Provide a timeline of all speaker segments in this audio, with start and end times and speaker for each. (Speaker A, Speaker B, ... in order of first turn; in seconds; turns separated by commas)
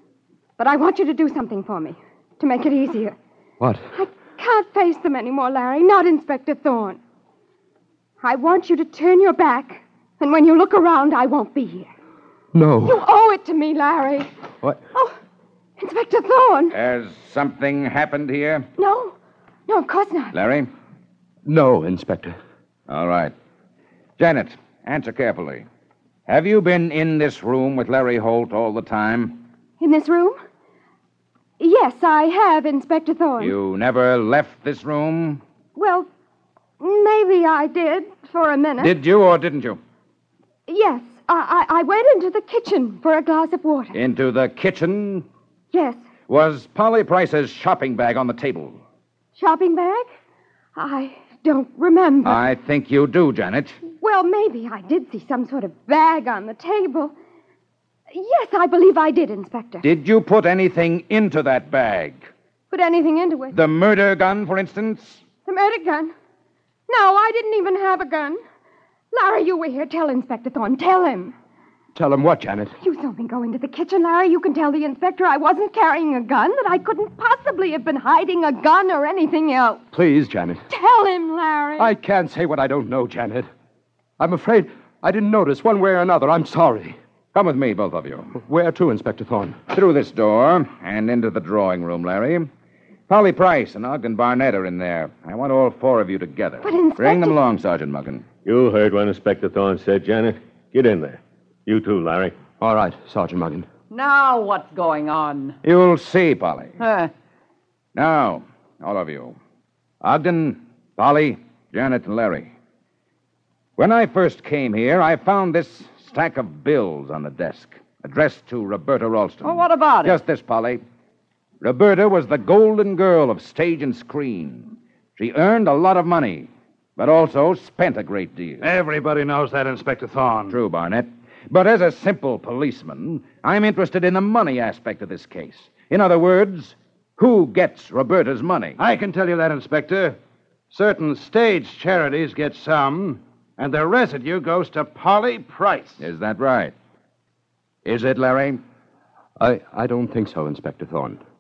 Speaker A: 0.6-3.1, Speaker B: 3.6-3.9, Speaker A: 3.9-7.0, Speaker A: 8.2-11.9, Speaker B: 12.5-13.0, Speaker A: 12.8-14.3, Speaker A: 15.8-16.8, Speaker C: 16.7-18.7, Speaker A: 18.8-19.1, Speaker A: 19.7-20.4, Speaker C: 20.3-20.7, Speaker B: 21.4-22.4, Speaker C: 22.9-23.3, Speaker C: 24.2-25.6, Speaker C: 26.3-29.4, Speaker A: 29.8-30.4, Speaker A: 31.6-33.6, Speaker C: 33.4-35.4, Speaker A: 35.8-36.1, Speaker A: 36.8-39.0, Speaker C: 38.8-39.8, Speaker A: 40.7-43.9, Speaker C: 43.9-45.2, Speaker A: 45.7-46.0, Speaker C: 46.3-48.8, Speaker A: 49.4-50.1, Speaker A: 50.8-52.4, Speaker C: 52.2-53.8, Speaker A: 54.0-57.1, Speaker A: 58.1-59.9, Speaker C: 59.8-62.3, Speaker A: 62.7-63.5, Speaker C: 63.5-65.2, Speaker A: 65.4-66.1, Speaker A: 66.9-68.4, Speaker A: 69.1-71.3, Speaker B: 71.9-72.7, Speaker A: 72.8-79.8, Speaker B: 79.9-80.6, Speaker A: 80.7-81.9, Speaker B: 81.8-83.5, Speaker B: 84.2-87.0, Speaker C: 87.3-88.3, Speaker B: 88.3-89.6, Speaker C: 89.7-92.5, Speaker C: 93.1-98.2, Speaker A: 96.6-97.4, Speaker D: 98.4-102.4, Speaker B: 102.6-103.7, Speaker E: 103.9-105.6, Speaker C: 105.6-106.8, Speaker E: 106.8-107.1, Speaker C: 107.9-109.4, Speaker C: 110.0-112.5, Speaker C: 113.8-120.8, Speaker E: 119.4-120.2, Speaker C: 121.6-128.6, Speaker F: 128.6-130.6, Speaker C: 130.5-138.8, Speaker F: 138.8-140.2, Speaker F: 140.7-146.1, Speaker C: 146.0-146.7, Speaker C: 147.8-148.6, Speaker B: 149.4-151.2